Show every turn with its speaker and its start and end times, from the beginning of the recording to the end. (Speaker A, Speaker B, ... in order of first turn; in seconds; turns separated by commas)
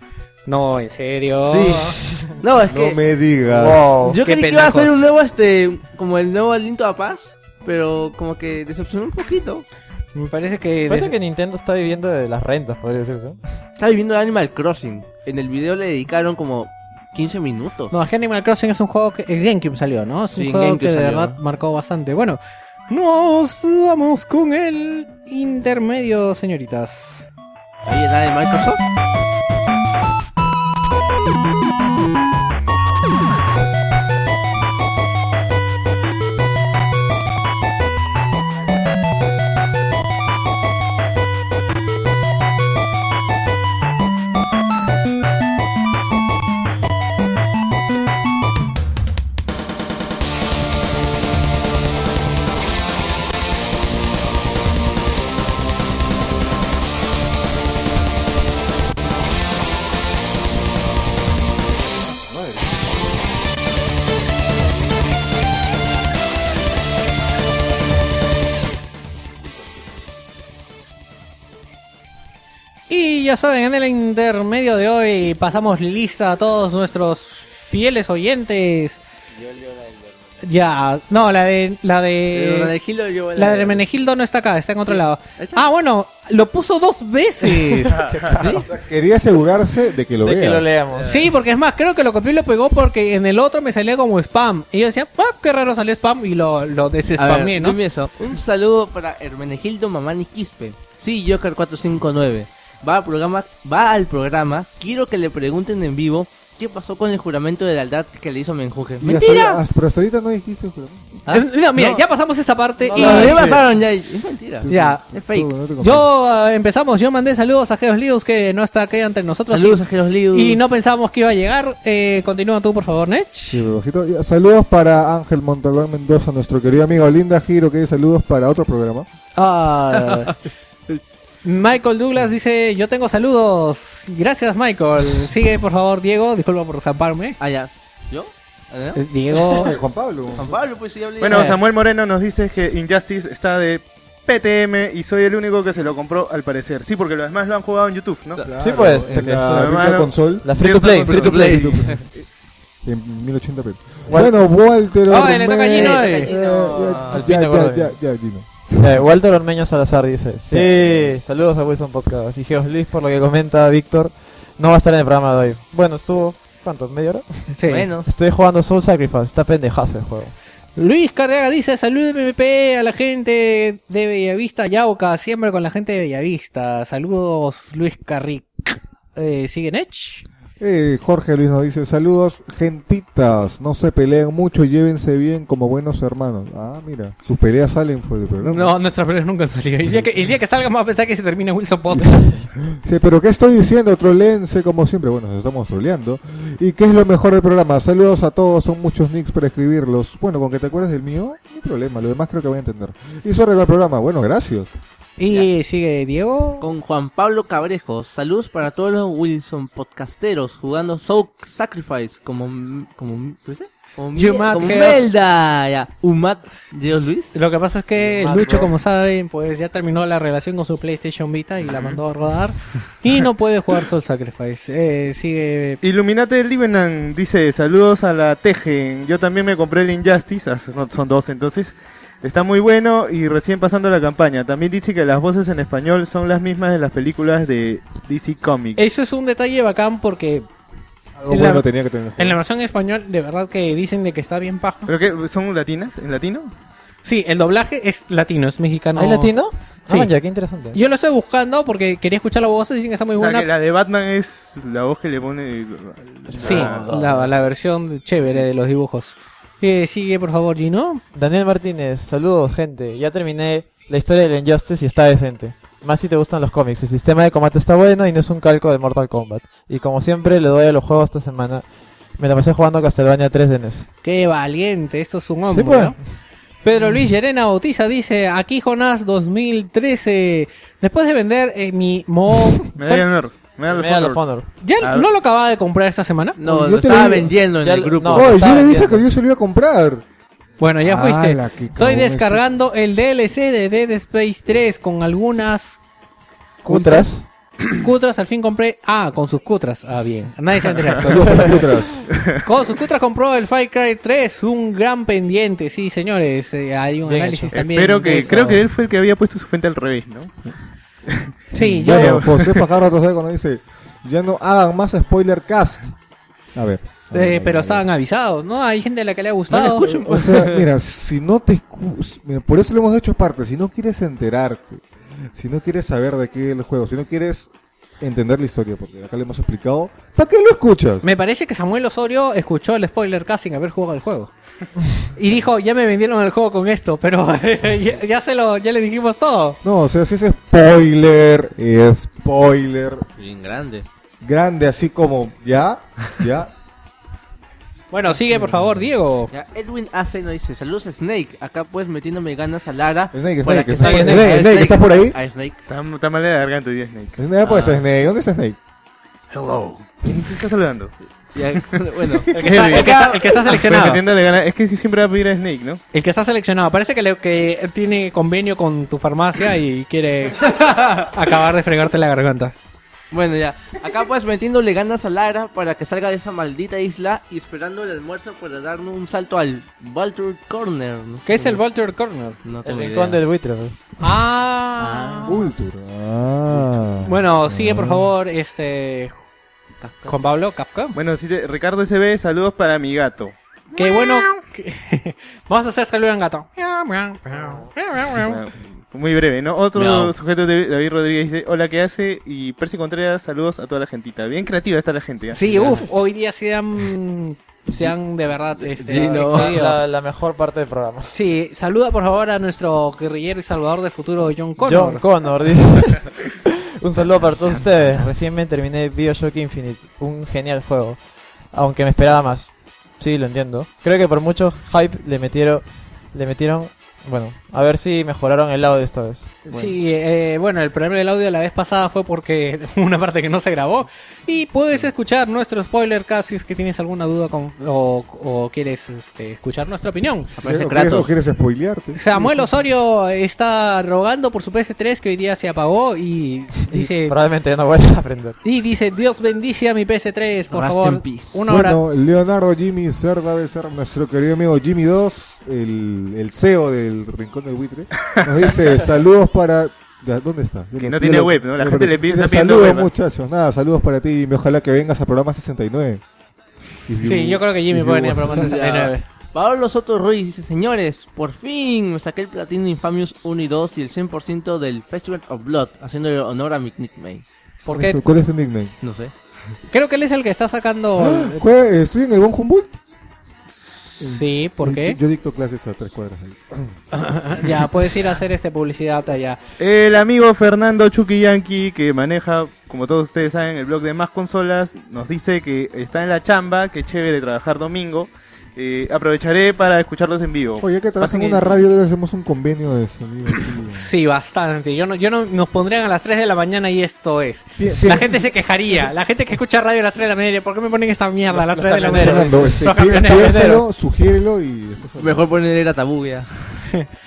Speaker A: 0.5-2.0, Speaker B: 1.4-3.0, Speaker C: 2.7-4.1, Speaker D: 3.5-4.2, Speaker B: 4.0-9.7, Speaker A: 4.1-5.0, Speaker A: 10.1-11.1, Speaker D: 10.9-13.4, Speaker B: 13.8-18.0, Speaker A: 17.9-27.2, Speaker B: 20.3-21.4, Speaker B: 27.8-28.8, Speaker C: 62.0-63.1, Speaker A: 72.9-79.0, Speaker B: 79.3-80.4, Speaker A: 80.4-82.7, Speaker B: 82.3-83.8, Speaker A: 83.3-88.6, Speaker B: 84.9-85.7, Speaker E: 87.9-88.3, Speaker D: 88.0-88.5, Speaker B: 88.3-88.7, Speaker C: 88.4-90.8, Speaker D: 90.2-91.1, Speaker B: 90.9-91.3, Speaker A: 91.1-97.8, Speaker B: 97.2-109.6, Speaker C: 109.0-111.1, Speaker B: 111.3-112.0, Speaker A: 111.3-113.6, Speaker D: 112.8-113.6, Speaker B: 112.9-115.5, Speaker C: 113.2-113.6, Speaker C: 114.6-116.1, Speaker A: 114.7-115.0, Speaker A: 115.8-123.7, Speaker B: 119.5-120.7, Speaker C: 123.5-129.1, Speaker A: 129.3-130.3, Speaker A: 131.4-137.4, Speaker B: 137.4-139.0, Speaker A: 138.9-139.7, Speaker C: 139.3-140.6, Speaker B: 140.3-141.6, Speaker E: 141.2-148.4, Speaker A: 141.3-141.6, Speaker B: 148.3-149.2, Speaker C: 148.4-150.5, Speaker D: 148.6-149.9, Speaker E: 149.5-151.9, Speaker D: 150.4-151.7, Speaker B: 151.0-152.0, Speaker C: 151.4-152.1, Speaker C: 152.8-159.1, Speaker D: 154.1-154.3, Speaker A: 155.1-156.3, Speaker B: 155.7-157.3, Speaker D: 157.1-157.9, Speaker D: 158.8-170.3, Speaker C: 160.5-161.2, Speaker A: 167.5-167.9, Speaker B: 167.7-168.1, Speaker A: 170.8-180.2, Speaker C: 180.6-188.7, Speaker A: 188.4-192.5, Speaker C: 192.7-204.7, Speaker A: 205.2-206.7, Speaker B: 206.6-217.4, Speaker A: 214.1-215.1, Speaker A: 217.3-225.8, Speaker D: 217.9-218.7, Speaker E: 221.6-222.0, Speaker E: 225.8-238.8, Speaker A: 238.8-240.5, Speaker C: 241.2-242.4, Speaker A: 241.3-244.9, Speaker E: 244.8-246.5, Speaker A: 247.0-249.3, Speaker D: 248.9-250.8, Speaker A: 250.7-253.5, Speaker E: 253.2-257.1, Speaker A: 256.3-261.0, Speaker D: 261.1-271.6, Speaker D: 272.2-273.9, Speaker A: 274.0-276.0, Speaker D: 275.5-275.9, Speaker A: 276.6-283.1, Speaker E: 282.8-284.2, Speaker D: 283.7-284.5, Speaker A: 284.6-286.4, Speaker E: 284.8-285.1, Speaker B: 286.4-288.5, Speaker C: 286.4-287.4, Speaker D: 287.0-289.0, Speaker C: 288.1-290.0, Speaker A: 290.6-295.8, Speaker C: 290.8-292.4, Speaker A: 296.6-297.1, Speaker D: 296.6-297.2, Speaker A: 297.7-301.6, Speaker C: 301.0-302.1, Speaker E: 302.1-302.4, Speaker A: 302.4-308.6, Speaker D: 307.1-307.6, Speaker E: 307.5-310.5, Speaker A: 311.5-312.2, Speaker C: 311.6-315.9, Speaker E: 311.9-312.7, Speaker C: 316.5-317.9, Speaker A: 317.1-319.9, Speaker B: 319.5-320.6, Speaker C: 319.8-331.1, Speaker A: 331.0-334.3, Speaker A: 335.1-339.6, Speaker C: 339.6-343.0, Speaker B: 343.2-343.9, Speaker C: 344.2-346.5, Speaker A: 347.9-349.3, Speaker C: 348.3-348.8, Speaker B: 349.3-355.6, Speaker C: 353.1-355.2, Speaker D: 353.8-354.5, Speaker E: 355.7-357.2, Speaker C: 357.2-358.6, Speaker B: 357.4-357.8, Speaker E: 359.9-360.9, Speaker B: 361.3-363.1, Speaker A: 362.3-364.0, Speaker E: 362.3-365.8, Speaker A: 365.9-372.5, Speaker B: 373.1-381.6, Speaker A: 381.2-382.4, Speaker B: 382.4-383.2, Speaker D: 382.6-383.8, Speaker A: 384.0-385.5, Speaker B: 384.8-385.5, Speaker C: 385.2-388.1, Speaker B: 386.5-386.8, Speaker A: 387.0-389.1, Speaker B: 389.8-390.1, Speaker A: 390.0-390.9, Speaker E: 390.9-393.3, Speaker A: 393.7-398.4, Speaker E: 398.1-405.8, Speaker B: 399.7-400.1, Speaker A: 405.3-409.8, Speaker B: 405.5-405.8, Speaker B: 408.6-409.6, Speaker D: 409.3-411.1, Speaker A: 411.1-415.0, Speaker D: 414.6-421.0, Speaker D: 421.5-429.4, Speaker A: 429.5-440.3, Speaker B: 440.4-441.1, Speaker C: 440.4-442.5, Speaker A: 441.9-447.1, Speaker D: 446.7-448.4, Speaker A: 448.4-451.8, Speaker B: 450.5-451.5, Speaker C: 451.4-466.0, Speaker E: 460.8-462.9, Speaker C: 466.9-468.5, Speaker A: 467.0-469.0, Speaker B: 468.3-477.2, Speaker A: 477.6-478.0, Speaker C: 477.7-478.7, Speaker B: 478.8-479.1, Speaker A: 479.7-481.4, Speaker C: 481.0-482.8, Speaker A: 483.5-485.0, Speaker C: 484.0-486.7, Speaker A: 486.9-489.4, Speaker E: 489.6-501.6, Speaker C: 500.6-503.9, Speaker A: 503.6-513.6, Speaker C: 507.6-508.2, Speaker B: 511.5-512.4, Speaker D: 511.8-513.7, Speaker C: 511.9-515.2, Speaker B: 515.0-516.5